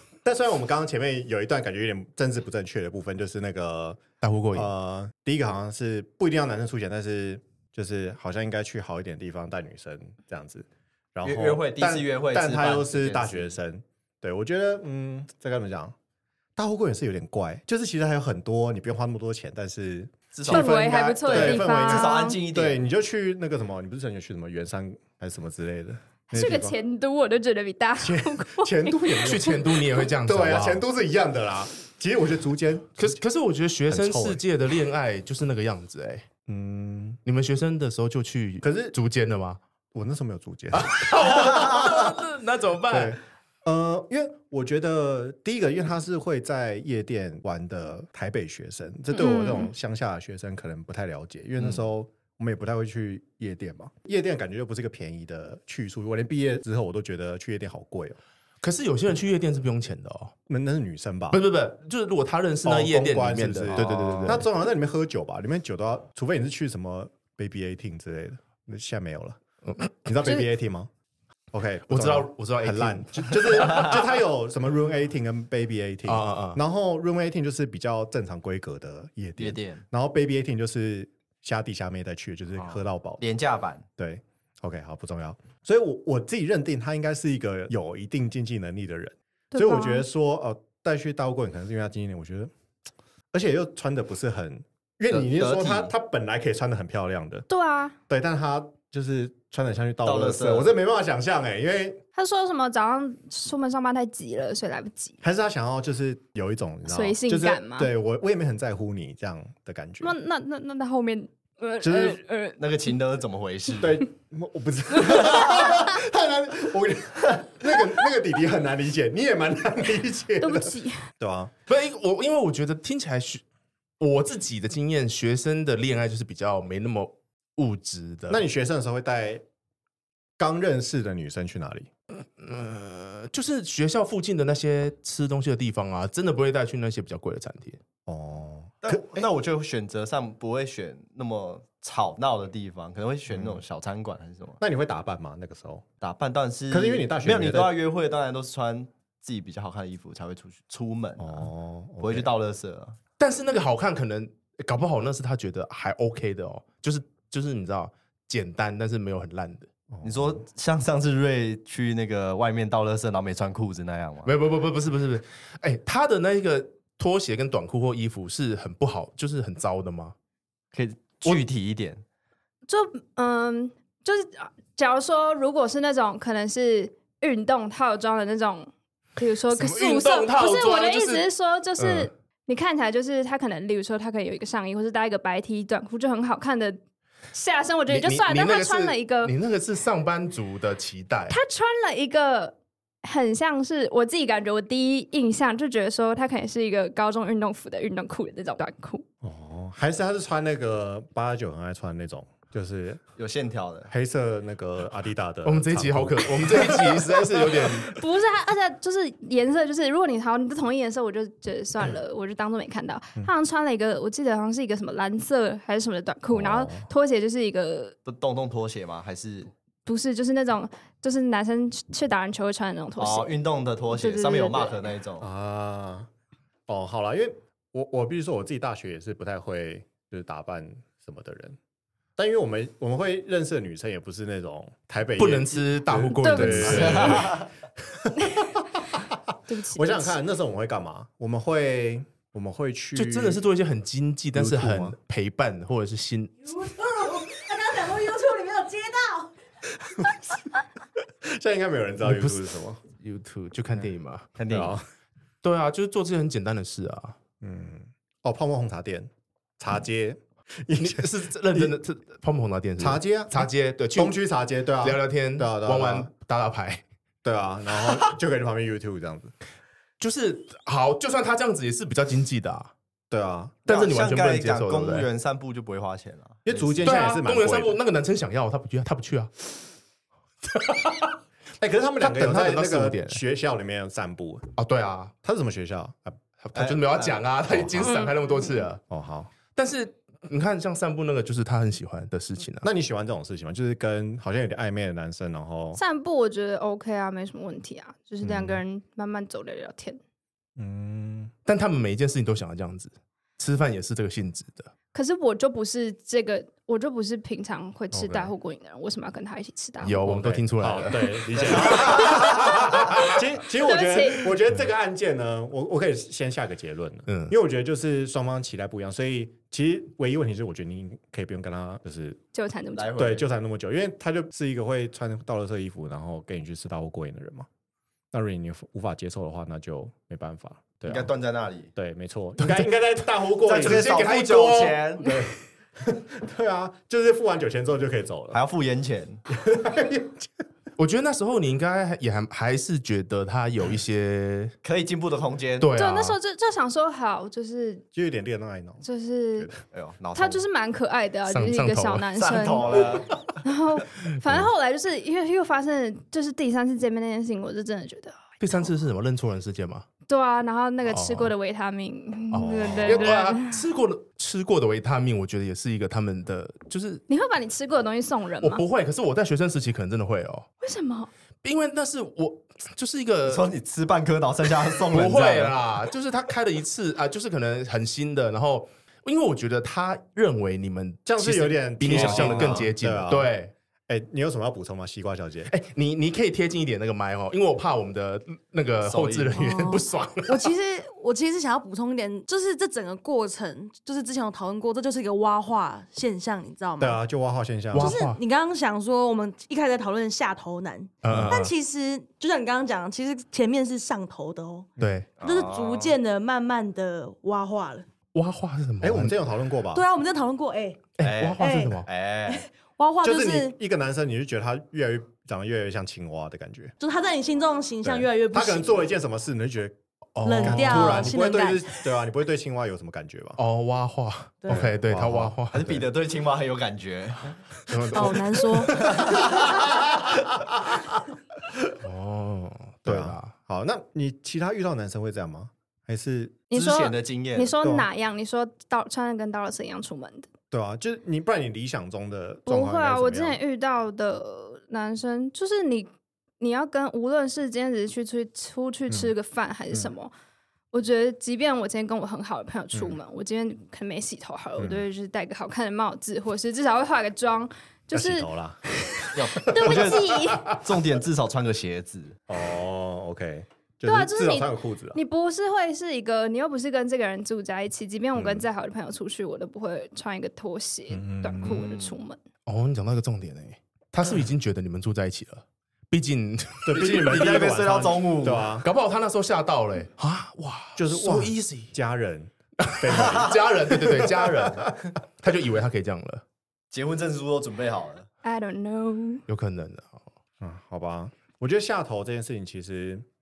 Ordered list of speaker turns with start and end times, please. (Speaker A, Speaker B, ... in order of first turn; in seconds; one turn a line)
Speaker A: 0.2-4.0
Speaker B: 4.2-4.7
Speaker A: 4.5-15.9
Speaker C: 11.2-13.6
Speaker A: 16.6-26.8
Speaker C: 20.3-22.8
Speaker D: 20.5-22.4
Speaker D: 26.3-29.2
Speaker A: 28.0-33.2
Speaker B: 29.2-30.8
Speaker B: 33.0-36.3
Speaker A: 33.9-34.4
Speaker A: 36.5-37.2
Speaker B: 37.3-39.6
Speaker A: 38.6-39.0
Speaker A: 39.9-42.1
Speaker B: 40.7-43.2
Speaker A: 42.9-58.2
Speaker D: 49.1-49.7
Speaker B: 58.6-60.3
Speaker A: 60.5-61.4
Speaker B: 61.3-64.5
Speaker A: 62.6-69.4
Speaker C: 63.7-64.4
Speaker A: 70.0-70.9
Speaker A: 71.5-83.2
Speaker B: 71.9-74.0
Speaker B: 76.1-76.6
Speaker C: 79.4-79.8
Speaker C: 82.6-83.8
Speaker A: 84.0-92.5
Speaker D: 89.5-90.0
Speaker A: 93.3-97.5
Speaker C: 95.1-95.9
Speaker D: 97.5-98.0
Speaker A: 98.1-102.0
Speaker C: 100.0-100.7
Speaker D: 102.2-105.2
Speaker A: 105.2-110.2
Speaker D: 106.9-107.9
Speaker D: 110.0-112.6
Speaker A: 111.8-112.2
Speaker C: 112.6-114.0
Speaker A: 113.8-121.5
Speaker D: 115.3-115.8
Speaker D: 120.4-121.1
Speaker B: 121.7-123.4
Speaker B: 124.0-128.4
Speaker A: 128.3-129.4
Speaker A: 130.4-131.9
Speaker B: 132.2-137.8
Speaker A: 138.1-139.3
Speaker C: 138.8-144.6
Speaker A: 143.3-143.6
Speaker A: 144.6-145.8
Speaker C: 146.0-151.5
Speaker A: 146.7-147.8
Speaker A: 151.2-152.3
Speaker C: 152.0-153.0
Speaker B: 153.2-159.7
Speaker A: 159.9-160.4
Speaker C: 160.0-164.3
Speaker B: 164.2-170.2
Speaker C: 170.7-172.0
Speaker D: 172.7-186.8
Speaker B: 179.5-181.2
Speaker B: 181.8-182.1
Speaker D: 187.3-189.3
Speaker B: 187.9-191.4
Speaker D: 191.3-199.1
Speaker A: 199.2-203.0
Speaker C: 203.2-203.9
Speaker A: 203.9-207.8
Speaker B: 205.4-208.0
Speaker D: 207.9-218.0
Speaker A: 216.3-216.9
Speaker C: 218.1-219.5
Speaker D: 219.9-223.3
Speaker C: 223.0-225.3
Speaker D: 223.9-224.8
Speaker A: 225.2-226.1
Speaker A: 226.7-231.6
Speaker A: 232.2-243.4
Speaker B: 235.2-237.4
Speaker D: 236.2-236.8
Speaker C: 236.8-237.4
Speaker D: 239.5-240.2
Speaker B: 242.9-246.5
Speaker A: 244.3-245.0
Speaker E: 246.5-249.3
Speaker A: 249.8-250.3
Speaker A: 251.2-252.8
Speaker B: 252.0-252.4
Speaker B: 253.0-254.3
Speaker C: 254.4-254.8
Speaker A: 254.5-254.8
Speaker B: 255.4-257.2
Speaker A: 257.4-261.7
Speaker B: 260.8-264.2
Speaker A: 262.8-266.1
Speaker B: 264.8-266.8
Speaker A: 267.2-269.3
Speaker B: 270.0-272.7
Speaker A: 273.1-273.6
Speaker B: 273.7-275.1
Speaker C: 273.7-277.0
Speaker A: 276.4-277.8
Speaker B: 276.8-279.3
Speaker B: 280.5-281.1
Speaker A: 281.6-284.5
Speaker B: 282.0-283.2
Speaker B: 284.6-285.1
Speaker A: 285.2-286.2
Speaker B: 286.4-288.8
Speaker C: 286.6-287.2
Speaker A: 287.5-287.9
Speaker D: 287.9-288.1
Speaker A: 288.9-289.3
Speaker B: 289.6-292.7
Speaker A: 292.6-295.8
Speaker D: 295.8-300.0
Speaker A: 298.2-298.6
Speaker A: 300.6-301.3
Speaker B: 301.5-304.7
Speaker D: 304.9-310.1
Speaker A: 307.9-308.3
Speaker B: 309.8-312.0
Speaker A: 310.0-322.2
Speaker C: 311.5-312.2
Speaker D: 313.6-314.3
Speaker B: 317.1-317.3
Speaker D: 322.3-323.0
Speaker C: 322.8-323.3
Speaker A: 323.0-327.5
Speaker A: 328.1-331.1
Speaker C: 330.9-331.7
Speaker A: 331.8-334.1
Speaker B: 332.4-332.7
Speaker C: 333.4-335.1
Speaker B: 333.6-335.2
Speaker A: 335.0-338.4
Speaker C: 338.3-339.2
Speaker A: 339.3-340.3
Speaker B: 340.8-344.6
Speaker C: 344.6-345.7
Speaker B: 345.6-346.2
Speaker D: 345.8-347.9
Speaker A: 347.9-348.8
Speaker D: 348.8-349.5
Speaker C: 349.7-350.4
Speaker D: 350.1-352.9
Speaker B: 351.3-352.4
Speaker C: 352.1-353.1
Speaker D: 353.4-358.2
Speaker B: 358.4-359.9
Speaker D: 360.1-363.6
Speaker B: 360.9-361.3
Speaker B: 362.3-367.0
Speaker A: 362.4-363.1
Speaker D: 367.1-368.6
Speaker B: 368.4-370.5
Speaker D: 370.6-371.1
Speaker B: 371.4-373.4
Speaker C: 373.3-375.6
Speaker B: 374.9-383.5
Speaker A: 381.1-383.3
Speaker C: 381.9-382.7
Speaker A: 383.9-385.5
Speaker B: 385.5-390.5
Speaker C: 388.8-389.4
Speaker E: 389.4-397.0
Speaker A: 396.8-398.0
Speaker B: 397.7-398.2
Speaker E: 397.8-404.7
Speaker B: 401.0-401.5
Speaker B: 404.8-405.1
Speaker C: 405.2-406.0
Speaker E: 405.2-407.9
Speaker B: 408.1-409.2
Speaker A: 408.8-409.9
Speaker E: 409.7-410.9
Speaker B: 411.0-411.9
Speaker C: 411.0-412.5
Speaker E: 411.4-413.6
Speaker A: 413.0-416.8
Speaker E: 416.8-418.8
Speaker A: 417.8-419.8
Speaker B: 420.2-421.1
Speaker E: 420.2-421.9
Speaker A: 420.4-423.4
Speaker B: 423.4-425.8
Speaker A: 424.5-425.4
Speaker C: 425.5-427.4
Speaker B: 427.7-428.7
Speaker E: 427.9-429.1
Speaker A: 428.8-430.8
Speaker C: 428.9-429.4
Speaker B: 431.8-433.3
Speaker A: 432.9-436.4
Speaker D: 436.5-440.3
Speaker C: 436.5-437.6
Speaker A: 437.6-437.9
Speaker A: 440.5-443.4
Speaker D: 442.5-445.9
Speaker D: 446.4-450.1
Speaker D: 450.7-458.3
Speaker A: 452.7-453.0
Speaker A: 454.6-454.9
Speaker A: 457.9-458.6
Speaker D: 458.9-460.6
Speaker C: 459.1-462.2
Speaker A: 459.6-459.9
Speaker A: 462.3-465.0
Speaker D: 463.9-472.2
Speaker A: 468.1-468.5
Speaker A: 470.9-471.7
Speaker C: 471.4-472.0
Speaker B: 472.5-477.1
Speaker A: 476.6-478.7
Speaker C: 476.7-478.6
Speaker B: 478.6-481.7
Speaker A: 480.8-484.7
Speaker B: 482.6-486.2
Speaker C: 486.7-488.1
Speaker D: 488.2-489.2
Speaker B: 489.3-490.0
Speaker A: 490.4-493.1